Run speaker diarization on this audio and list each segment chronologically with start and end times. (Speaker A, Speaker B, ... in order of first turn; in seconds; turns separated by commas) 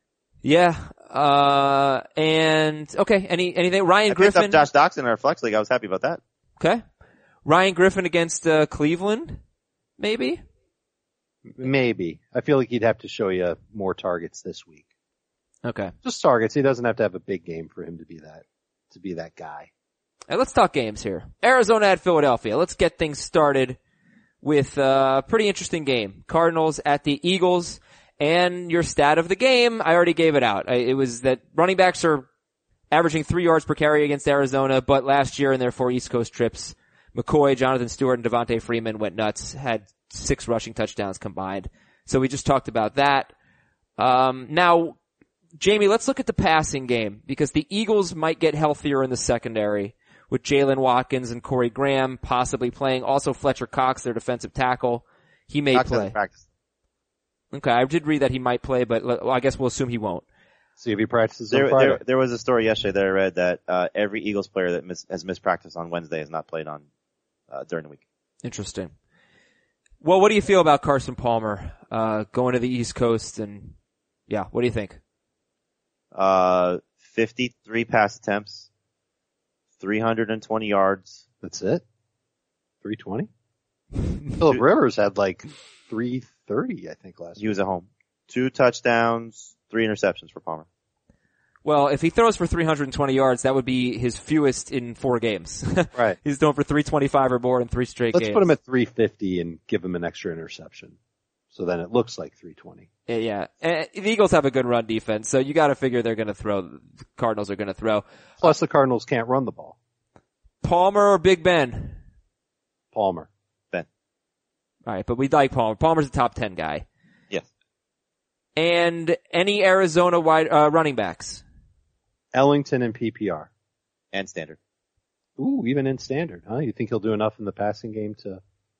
Speaker A: 0.4-4.6, Speaker B: 4.1-6.2, Speaker A: 7.5-9.4, Speaker A: 10.0-10.4, Speaker C: 11.4-14.9, Speaker A: 15.6-15.9, Speaker C: 16.0-19.7, Speaker A: 20.3-23.8, Speaker A: 24.4-32.3, Speaker A: 32.9-43.3, Speaker A: 44.0-45.0, Speaker A: 45.6-56.1, Speaker B: 55.7-56.4, Speaker A: 57.5-60.2, Speaker C: 60.8-62.0, Speaker B: 61.5-66.8, Speaker B: 67.5-68.0, Speaker A: 68.4-68.9, Speaker A: 70.0-73.8, Speaker A: 74.3-75.0, Speaker B: 76.1-78.7, Speaker B: 79.8-81.2, Speaker C: 81.4-81.8, Speaker C: 82.8-83.3, Speaker C: 84.4-87.5, Speaker B: 87.4-90.7, Speaker A: 91.6-98.5, Speaker C: 98.1-101.0, Speaker C: 101.5-102.9, Speaker A: 103.1-108.0, Speaker C: 108.4-109.8, Speaker A: 110.6-112.0, Speaker C: 112.9-113.3, Speaker A: 114.9-116.8, Speaker A: 118.6-121.4, Speaker C: 122.3-123.5, Speaker B: 124.1-124.6, Speaker C: 125.4-128.4